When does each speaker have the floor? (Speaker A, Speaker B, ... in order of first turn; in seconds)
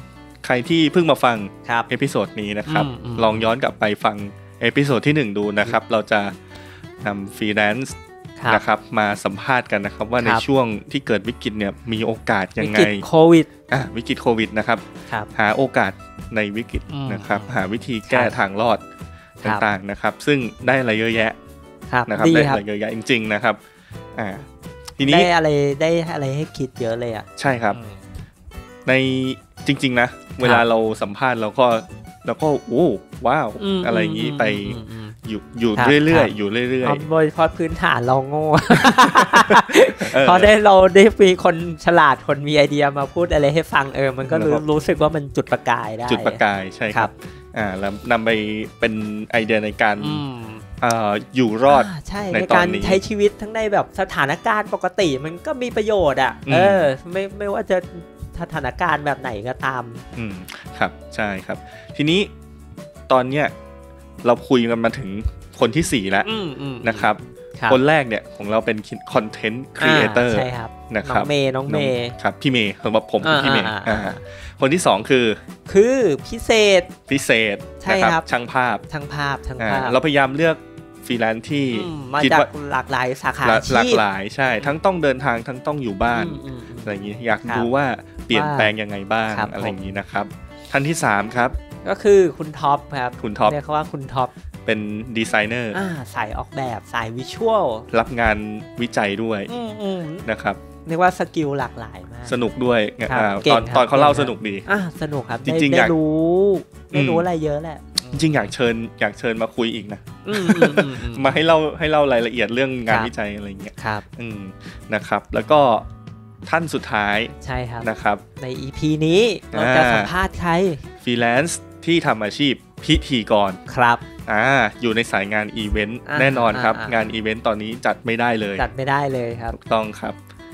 Speaker A: 0.4-6.4, 7.0-8.0, 8.5-13.1, 13.7-18.8, 19.4-21.4, 22.1-23.6, 24.1-24.5, 25.0-25.3, 27.4-27.8, 28.9-37.0, 38.8-40.5, 44.3-44.6, 46.1-50.2, 50.8-53.0, 56.5-56.9, 60.2-62.3, 63.1-63.5, 64.2-66.3, 66.8-75.4, 77.1-78.8, 79.6-82.5, 83.4-91.6, 93.2-93.6, 94.7-95.8, 97.9-99.5, 100.2-100.6, 102.3-104.7, 105.5-105.9, 106.9-107.3, 108.1-115.9, 116.5-118.2, 119.5-120.1, 121.0-123.6, 124.2-128.7, 129.5-130.2
Speaker B: 2.7-3.4, 8.4-8.6, 12.6-13.5, 16.9-18.4, 21.9-22.6, 25.0-28.0, 33.6-35.2, 35.8-36.3, 36.8-46.4, 50.0-50.6, 51.7-60.0, 66.2-67.8, 69.8-72.2, 73.2-74.2, 75.7-76.9, 77.8-78.3, 78.9-80.0, 81.7-84.0, 86.1-86.9, 88.3-88.7, 89.3-89.8, 91.8-94.3, 95.7-97.9, 99.5-100.3, 100.9-102.4, 103.1-108.5, 110.2-111.3, 112.9-113.1, 113.8-114.1, 117.4-120.8, 123.7-124.0, 126.1-127.0, 128.6-129.6